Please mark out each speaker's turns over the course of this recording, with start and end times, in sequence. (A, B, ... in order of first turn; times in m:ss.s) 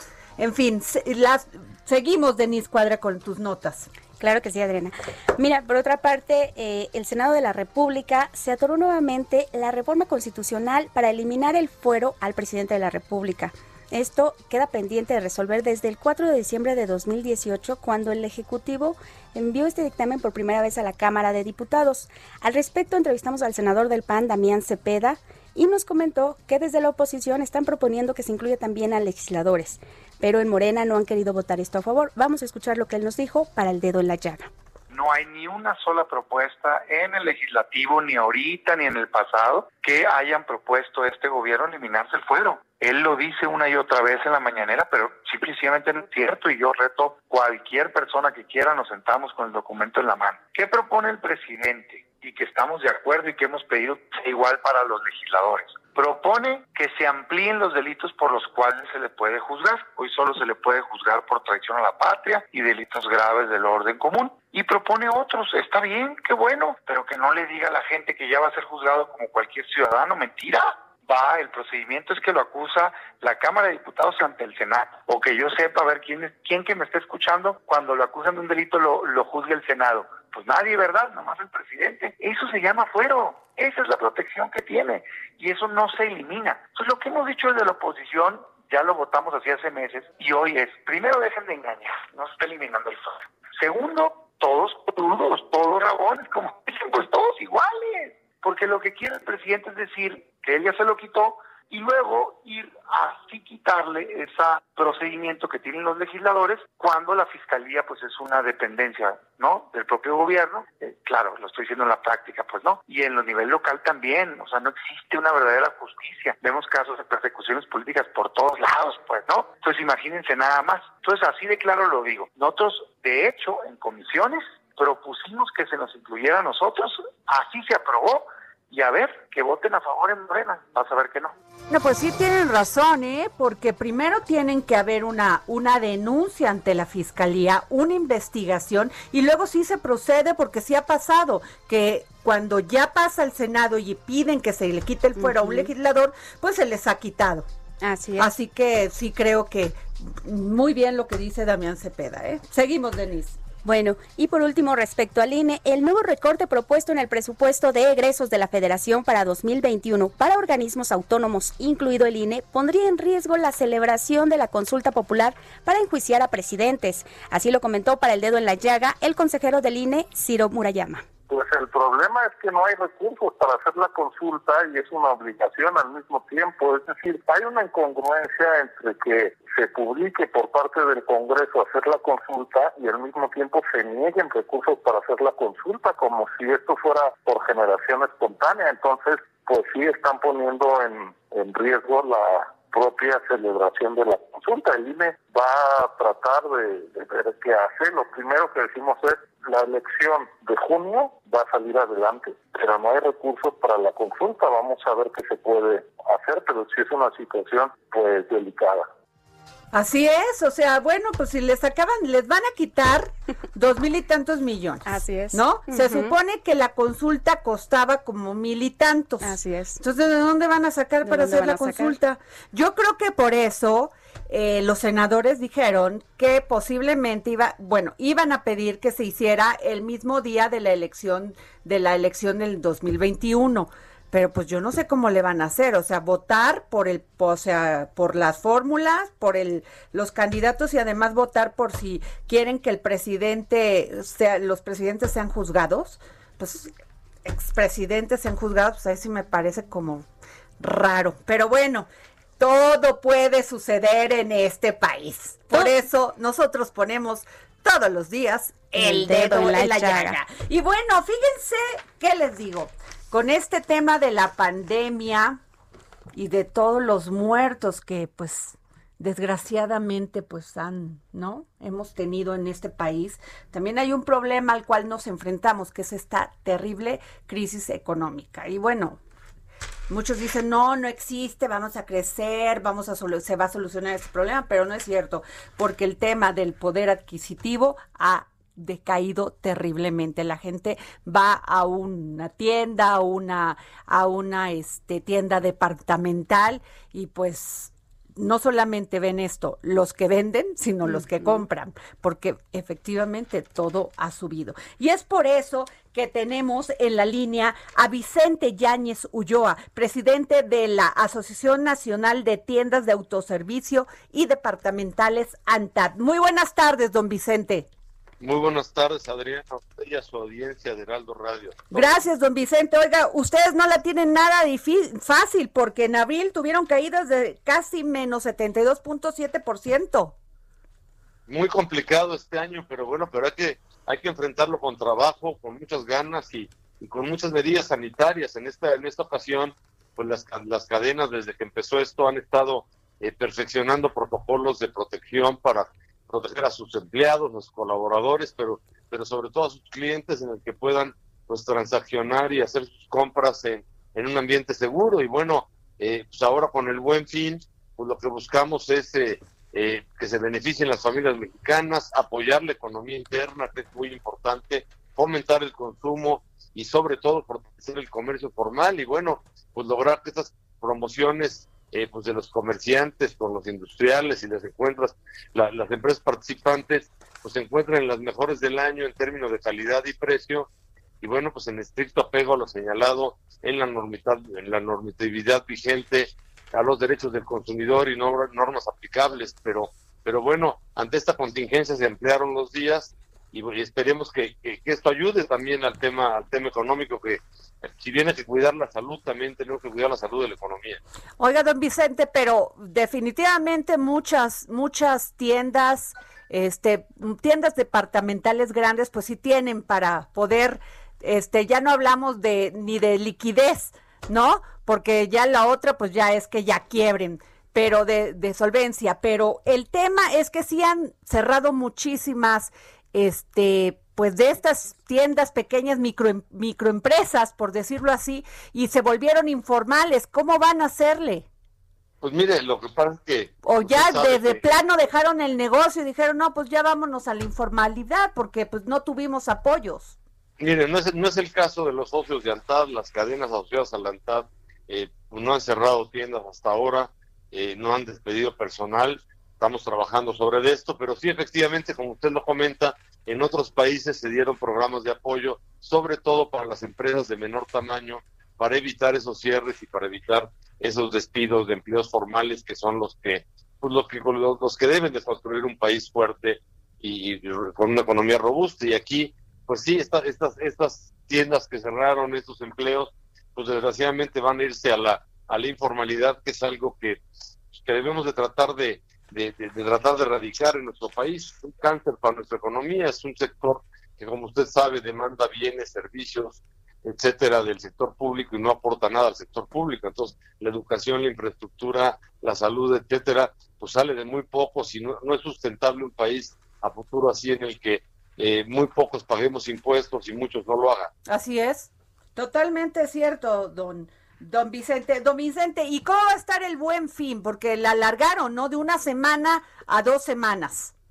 0:00.4-0:03.9 A
0:04.2-0:34.5 B
0:34.9-2:11.3 C
2:11.7-2:27.5 A
2:25.2-2:25.7 B
2:27.8-2:28.3 B
2:28.2-2:33.4 A
2:33.6-2:51.1 B
2:51.3-3:28.9 D
3:29.7-4:06.7 A
3:34.8-3:36.2 B
3:39.2-3:39.8 B
3:41.0-3:42.0 B
4:07.2-4:10.1 A
4:10.6-4:11.9 A
4:12.4-4:25.4 A
4:18.8-4:20.2 B
4:26.2-4:39.0 A
4:39.9-5:17.7 A
5:00.9-5:01.4 B
5:18.2-5:22.0 E
5:21.7-5:30.2 A
5:31.3-6:20.5 E
6:21.0-6:40.8 E
6:41.2-7:11.3 A
7:12.0-7:14.6 E
7:13.4-7:20.0 A
7:20.4-7:57.0 E
7:57.5-8:20.9 E
8:21.1-8:30.7 A